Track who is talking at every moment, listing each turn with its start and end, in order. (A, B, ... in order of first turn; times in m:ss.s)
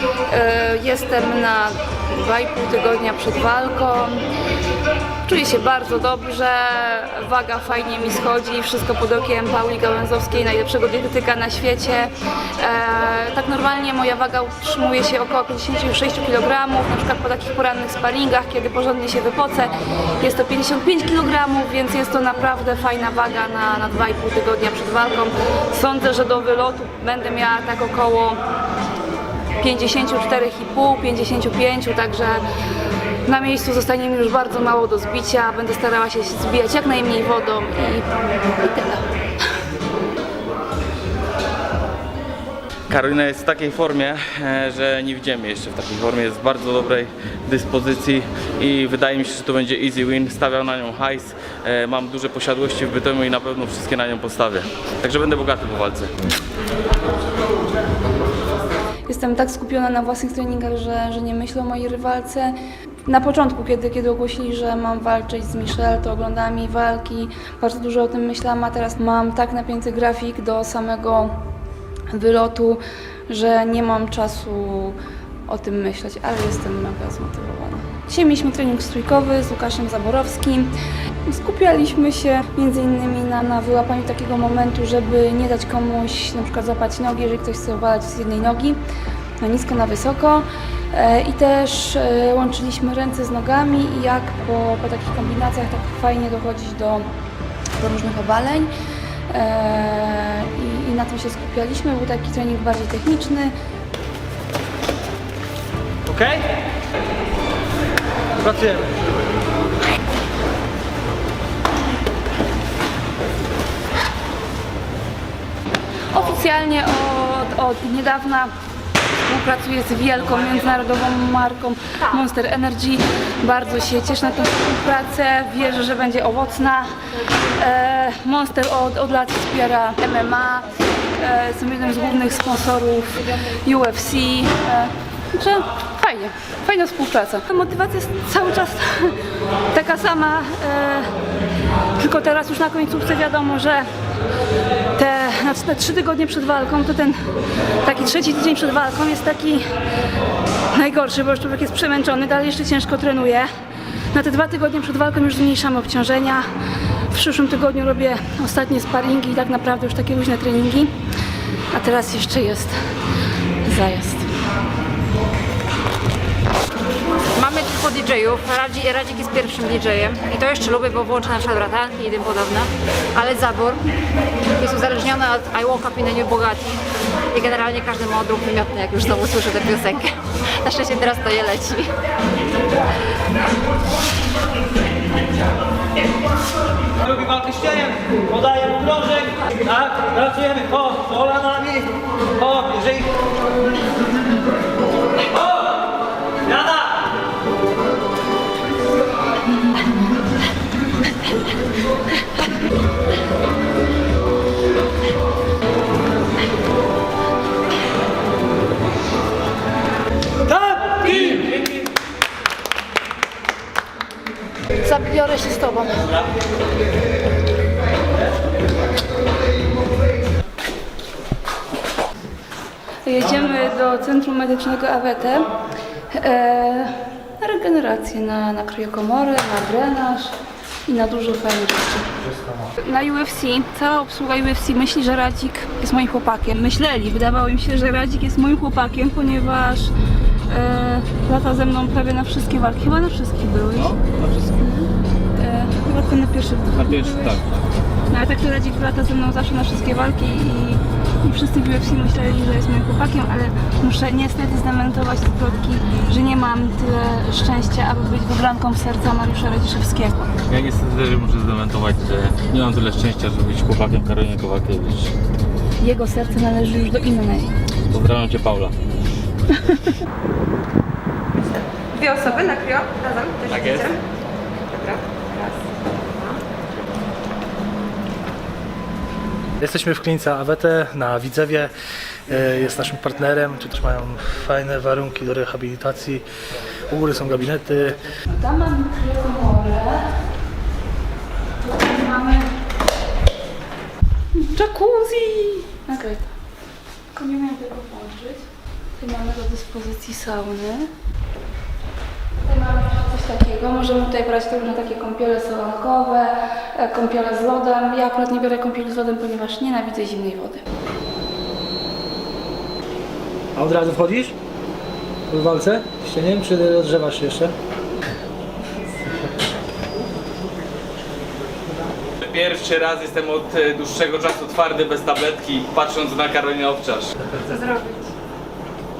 0:00.3-0:04.2 A
0:05.2-0:28.4 A
0:29.6-0:32.4 A
0:33.3-0:38.1 A
0:38.6-0:39.0 A
0:42.9-0:56.1 B
0:59.1-1:02.5 A
1:03.1-1:11.4 A
1:12.1-1:20.7 A
1:21.2-1:28.8 A
1:29.4-1:37.0 A
1:37.8-1:38.7 A
1:39.3-1:43.5 A
1:46.1-1:46.4 C
1:48.5-1:48.9 C
1:56.1-1:58.5 A
1:59.2-2:06.9 A
2:07.4-2:19.2 A
2:19.7-2:21.1 A
2:22.0-2:23.8 A
2:25.0-2:27.2 A
2:27.8-2:29.6 A
2:30.7-2:33.5 A
2:34.1-2:36.5 A
2:37.1-2:40.9 A
2:41.7-2:42.8 A
2:43.6-2:44.3 A
2:47.3-2:53.8 D
2:54.6-2:56.7 D
2:57.3-3:01.9 D
3:07.0-3:13.1 C
3:16.5-3:16.9 C
3:30.5-3:31.7 C
3:43.0-3:45.5 A
3:46.1-3:50.3 A
3:50.9-3:52.1 A
3:52.2-3:52.7 E
3:52.8-3:59.9 A
4:00.5-4:04.0 A
4:03.7-4:04.5 B
4:04.6-4:07.4 A
4:06.7-4:07.6 B
4:08.1-4:20.3 A
4:20.5-4:25.1 B
4:25.8-4:27.5 A
4:27.9-4:28.8 B
4:29.6-4:29.9 A
4:31.9-4:34.0 F
4:33.5-4:33.9 B
4:34.7-4:36.4 F
4:39.6-4:41.7 E
4:42.3-4:46.2 E
4:46.9-4:48.0 E
4:48.3-4:50.1 A
4:51.6-4:52.5 A
4:54.4-4:56.3 A
4:57.1-4:58.5 A
4:59.0-5:00.9 A
5:02.4-5:10.6 A
5:13.6-5:14.3 E
5:15.3-5:17.5 E
5:22.2-5:27.1 B
5:27.5-5:27.9 F